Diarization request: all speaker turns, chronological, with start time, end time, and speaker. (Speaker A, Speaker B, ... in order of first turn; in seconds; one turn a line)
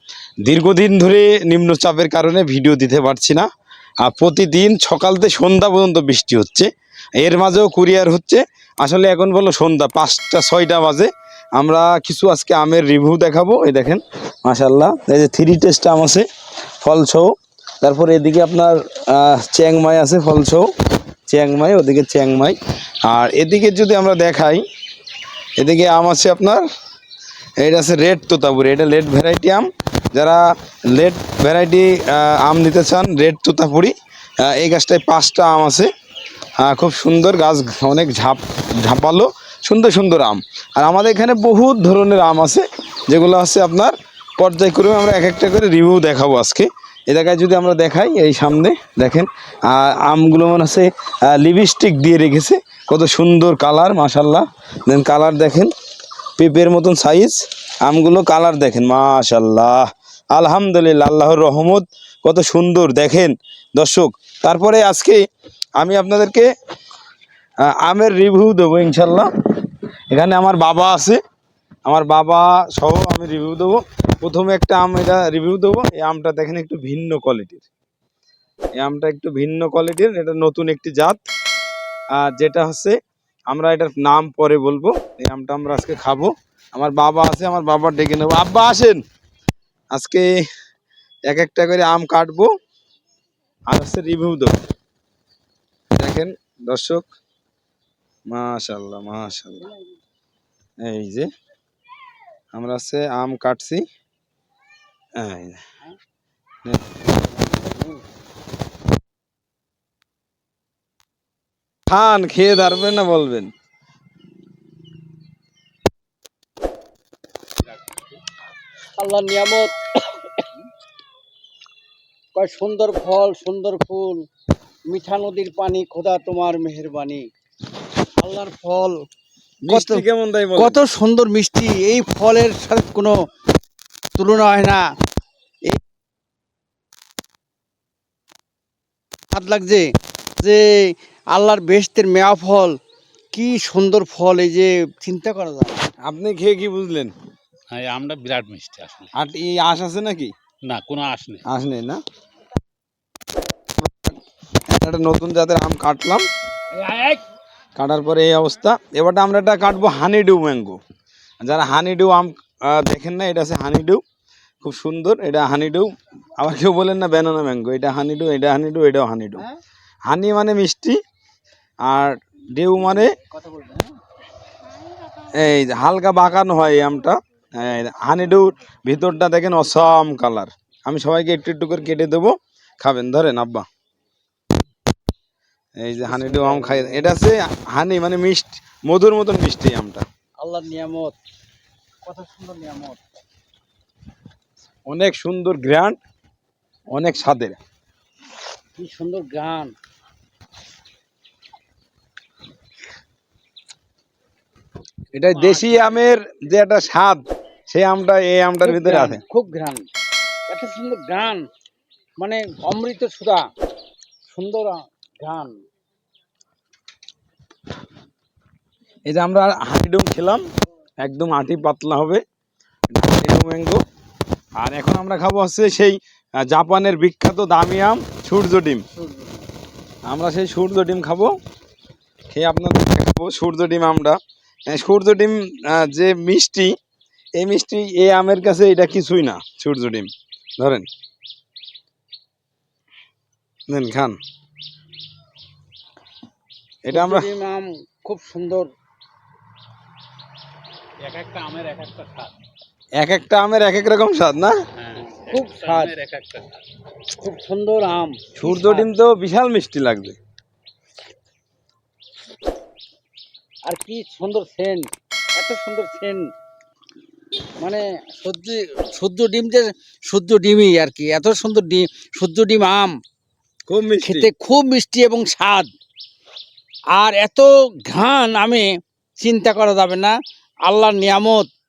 Speaker A: 0.4-3.5
Speaker A: 4.0-16.2
Speaker A: 16.8-20.7
Speaker A: 21.3-24.6
Speaker A: 25.6-26.6
Speaker A: 27.6-35.9
Speaker A: 36.6-55.7
Speaker A: 56.4-65.2
Speaker A: 65.8-66.5
Speaker A: 67.6-69.3
Speaker A: 70.1-71.2
Speaker A: 71.8-77.7
Speaker A: 78.8-81.2
Speaker A: 82.1-83.0
Speaker A: 83.5-89.0
Speaker A: 89.9-90.3
Speaker A: 91.3-92.5
Speaker A: 93.7-94.6
Speaker A: 96.0-97.1
Speaker A: 98.3-99.7
Speaker A: 100.8-101.3
Speaker A: 102.5-103.8
Speaker A: 105.2-105.6
Speaker A: 106.6-107.0
Speaker B: 107.1-108.0
Speaker A: 111.9-113.5
Speaker B: 119.0-120.5
Speaker B: 122.3-124.2
Speaker B: 124.9-127.2
Speaker B: 128.2-129.0
Speaker A: 129.6-130.8
Speaker B: 129.7-130.0
Speaker B: 130.6-133.1
Speaker B: 134.2-134.8
Speaker B: 139.3-142.8
Speaker B: 143.3-145.9
Speaker A: 146.0-147.1
Speaker C: 147.7-149.1
Speaker A: 149.1-150.3
Speaker C: 150.6-151.4
Speaker A: 151.4-152.0
Speaker A: 153.8-154.2
Speaker A: 154.7-156.2
Speaker B: 156.8-157.2
Speaker A: 157.8-160.8
Speaker A: 161.4-164.0
Speaker A: 164.6-169.4
Speaker A: 170.1-171.0
Speaker A: 171.8-173.1
Speaker B: 173.2-173.9
Speaker A: 175.3-183.7
Speaker A: 185.8-190.0
Speaker B: 186.0-187.2
Speaker B: 190.4-191.2
Speaker B: 192.0-193.0
Speaker A: 194.9-196.0
Speaker A: 196.9-197.6
Speaker B: 198.8-199.7
Speaker A: 205.1-209.2
Speaker B: 205.3-205.9
Speaker B: 208.6-209.8
Speaker B: 210.5-211.4
Speaker B: 212.2-213.4
Speaker B: 214.3-215.6
Speaker A: 219.1-220.4
Speaker A: 221.0-222.2
Speaker A: 222.9-223.8
Speaker A: 224.6-228.8
Speaker B: 229.0-229.4
Speaker A: 230.1-231.3
Speaker A: 232.3-236.7
Speaker A: 237.3-240.9
Speaker A: 243.7-244.2
Speaker A: 246.8-247.3
Speaker B: 246.9-248.7
Speaker C: 251.0-252.3
Speaker A: 252.9-254.6
Speaker C: 254.8-256.6
Speaker B: 255.0-256.0
Speaker B: 257.1-258.9
Speaker A: 258.4-260.2
Speaker B: 263.6-266.2
Speaker B: 267.6-272.9
Speaker A: 273.6-274.3
Speaker B: 274.0-275.7
Speaker B: 276.9-278.6
Speaker B: 279.2-280.1
Speaker B: 280.6-281.5